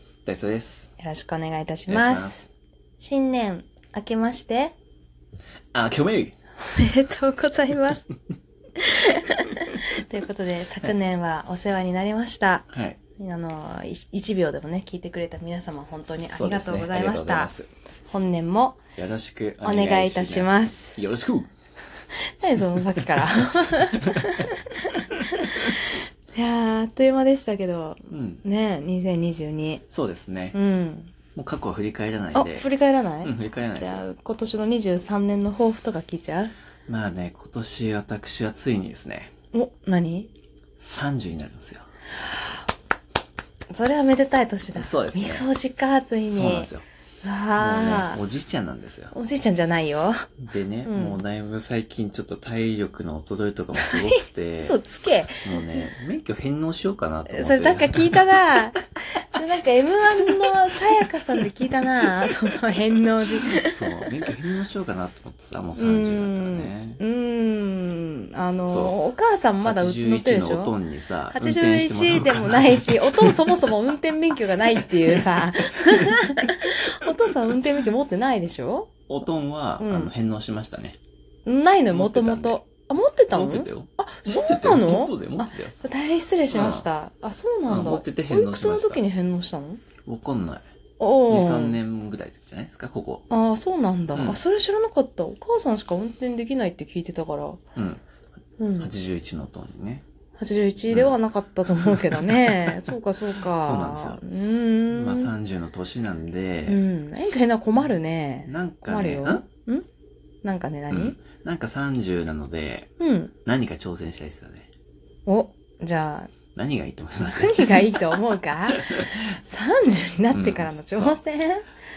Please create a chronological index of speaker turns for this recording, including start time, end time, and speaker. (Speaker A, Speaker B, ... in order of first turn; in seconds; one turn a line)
Speaker A: 0.2-0.9
Speaker B: 1.0-4.7
Speaker A: 1.9-2.4
Speaker A: 5.7-6.3
Speaker B: 6.6-8.1
Speaker B: 8.8-17.5
Speaker A: 12.7-13.0
Speaker A: 16.3-17.7
Speaker B: 18.1-18.8
Speaker A: 18.9-21.5
Speaker B: 19.6-20.9
Speaker B: 22.4-29.8
Speaker A: 23.0-24.3
Speaker A: 28.1-28.4
Speaker A: 29.9-30.6
Speaker B: 30.5-31.1
Speaker A: 31.3-32.7
Speaker B: 32.3-36.5
Speaker A: 33.2-34.1
Speaker A: 36.9-39.3
Speaker B: 39.5-40.3
Speaker A: 40.8-41.9
Speaker B: 42.2-42.5
Speaker B: 43.7-46.7
Speaker A: 44.7-45.5
Speaker A: 46.3-46.9
Speaker B: 47.2-48.2
Speaker A: 47.6-49.1
Speaker B: 49.1-51.2
Speaker A: 50.5-54.8
Speaker B: 53.8-55.9
Speaker A: 55.4-58.3
Speaker B: 57.3-64.0
Speaker A: 63.6-67.0
Speaker B: 65.8-70.7
Speaker A: 68.7-69.0
Speaker A: 69.6-73.6
Speaker B: 71.3-78.9
Speaker A: 74.8-75.3
Speaker A: 79.1-81.0
Speaker B: 79.8-80.1
Speaker B: 81.5-89.8
Speaker A: 81.9-82.6
Speaker A: 83.3-85.7
Speaker A: 86.5-86.9
Speaker A: 87.7-89.0
Speaker A: 90.0-90.7
Speaker B: 91.0-91.8
Speaker A: 91.3-93.2
Speaker B: 93.3-97.6
Speaker A: 94.1-94.4
Speaker A: 97.8-98.0
Speaker B: 98.6-98.9
Speaker A: 98.8-100.0
Speaker B: 100.4-105.3
Speaker A: 100.9-101.2
Speaker A: 101.7-102.9
Speaker A: 103.6-104.2
Speaker A: 104.9-106.8
Speaker B: 106.7-109.8
Speaker A: 108.5-109.4
Speaker B: 110.4-111.2
Speaker A: 110.9-112.9
Speaker B: 113.0-113.3
Speaker A: 113.4-114.7
Speaker B: 115.2-116.3
Speaker A: 116.5-118.2
Speaker B: 117.2-121.7
Speaker A: 118.7-119.2
Speaker A: 120.3-121.2